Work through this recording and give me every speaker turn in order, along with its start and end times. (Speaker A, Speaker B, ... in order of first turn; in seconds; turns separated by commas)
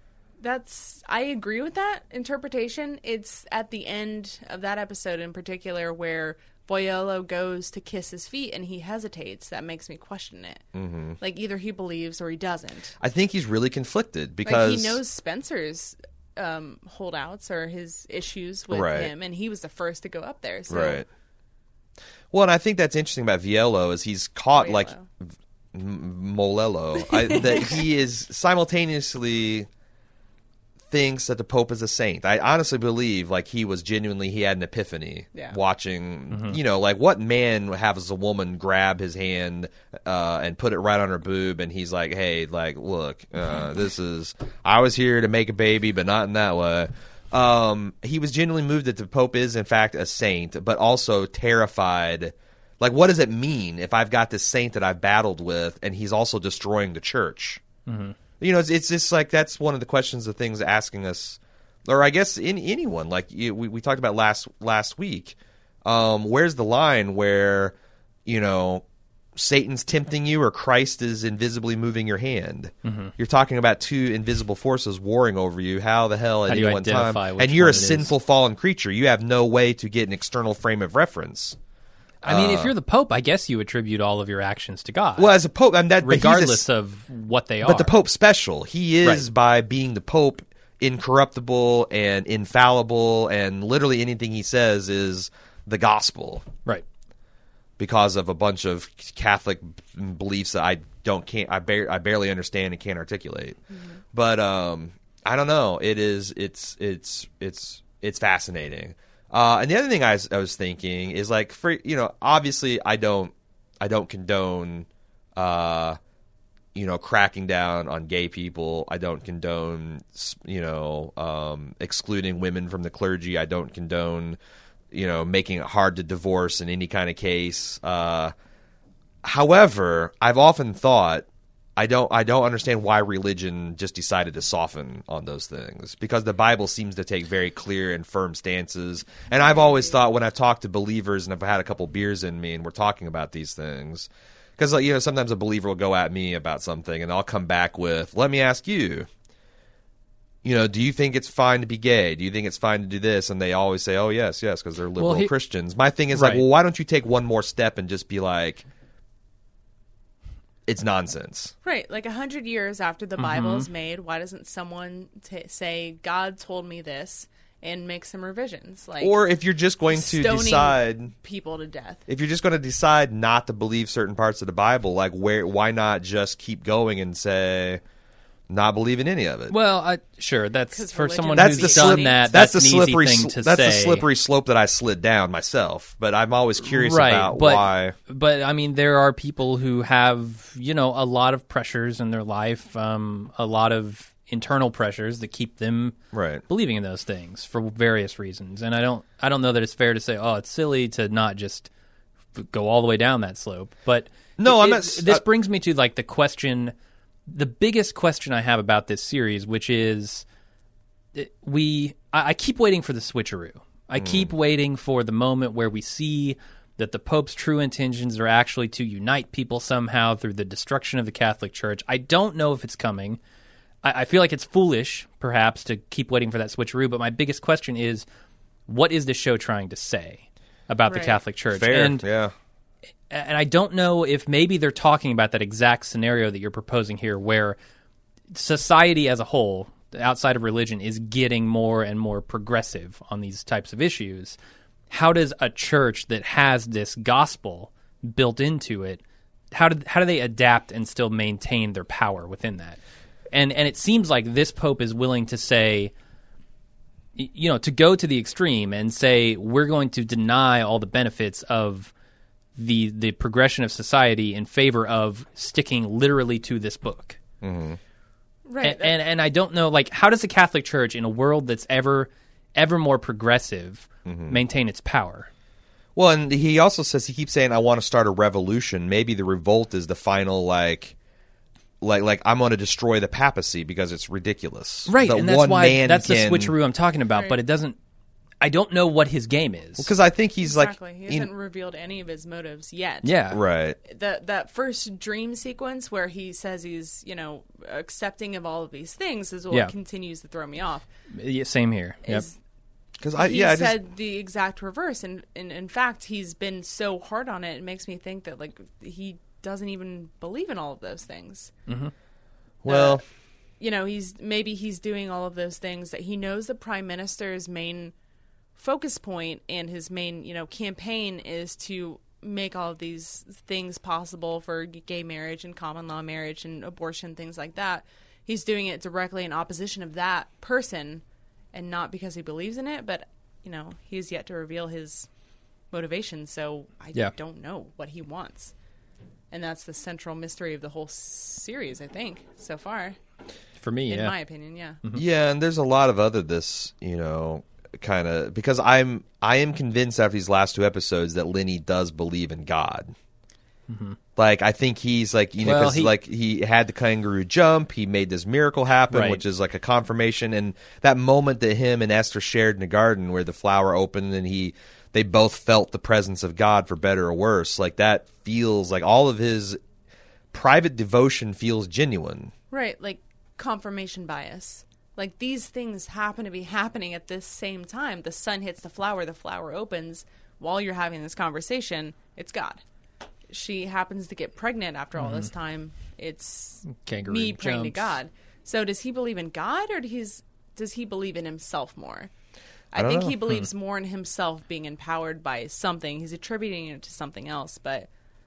Speaker A: 0.4-10.6, Speaker B: 10.7-11.2, Speaker A: 11.2-12.9, Speaker B: 13.0-15.0, Speaker A: 14.4-21.0, Speaker B: 18.7-19.1, Speaker B: 20.7-21.1, Speaker B: 22.3-29.7, Speaker A: 24.6-25.0, Speaker A: 27.0-27.9, Speaker B: 30.9-57.6, Speaker C: 36.3-36.6, Speaker C: 57.9-58.1, Speaker B: 58.4-67.7, Speaker B: 68.2-68.8, Speaker B: 69.3-81.6, Speaker C: 72.8-73.1, Speaker C: 76.5-78.1, Speaker C: 82.2-85.3, Speaker B: 82.2-82.7, Speaker B: 85.2-86.6, Speaker C: 86.0-87.9, Speaker B: 87.6-96.5, Speaker B: 97.8-103.6, Speaker B: 104.1-116.0, Speaker B: 116.7-124.4, Speaker B: 124.9-128.3, Speaker B: 129.2-149.1, Speaker A: 139.6-139.9, Speaker B: 150.4-158.6, Speaker C: 155.0-155.3, Speaker C: 156.1-156.4, Speaker B: 160.7-161.5, Speaker A: 161.6-169.2, Speaker C: 163.2-163.7, Speaker B: 169.0-171.1, Speaker A: 169.9-172.1, Speaker B: 172.1-177.8, Speaker B: 178.5-179.5, Speaker C: 179.5-184.1, Speaker A: 180.7-182.4, Speaker B: 181.3-187.9, Speaker C: 186.6-196.0, Speaker B: 196.1-196.4, Speaker C: 196.5-201.7, Speaker C: 202.3-206.7, Speaker B: 204.4-205.2, Speaker C: 207.3-210.2, Speaker C: 211.1-223.2, Speaker B: 214.0-214.3, Speaker C: 223.8-228.1, Speaker C: 228.7-232.0, Speaker A: 230.9-231.2, Speaker B: 231.5-232.3, Speaker C: 233.1-237.6, Speaker C: 238.3-244.4, Speaker C: 244.9-252.8, Speaker C: 253.3-255.9, Speaker C: 257.1-261.9, Speaker C: 262.6-267.2, Speaker B: 267.4-267.8, Speaker A: 268.4-269.0, Speaker C: 268.6-275.3, Speaker B: 274.1-274.4, Speaker B: 275.9-280.9, Speaker B: 281.8-286.5, Speaker C: 284.9-287.8, Speaker C: 288.4-289.9, Speaker B: 289.8-291.3, Speaker A: 290.4-293.2, Speaker C: 293.0-293.4, Speaker B: 293.3-293.8, Speaker A: 293.8-300.9, Speaker C: 301.1-302.2, Speaker A: 302.0-302.4, Speaker B: 303.0-303.8, Speaker A: 303.1-311.5, Speaker C: 311.7-311.9, Speaker B: 312.6-313.0, Speaker A: 312.6-313.0, Speaker A: 313.6-317.9, Speaker A: 318.6-335.1, Speaker A: 335.7-338.5, Speaker A: 339.3-342.9, Speaker C: 343.6-344.1, Speaker A: 343.9-344.8, Speaker B: 344.9-352.9, Speaker C: 353.7-354.0, Speaker B: 354.1-369.6, Speaker C: 355.4-355.9, Speaker C: 358.9-359.2, Speaker B: 370.3-372.3, Speaker A: 372.5-382.6, Speaker A: 383.3-392.1, Speaker C: 385.0-385.3, Speaker C: 386.7-388.0, Speaker A: 392.7-397.9, Speaker B: 392.8-393.1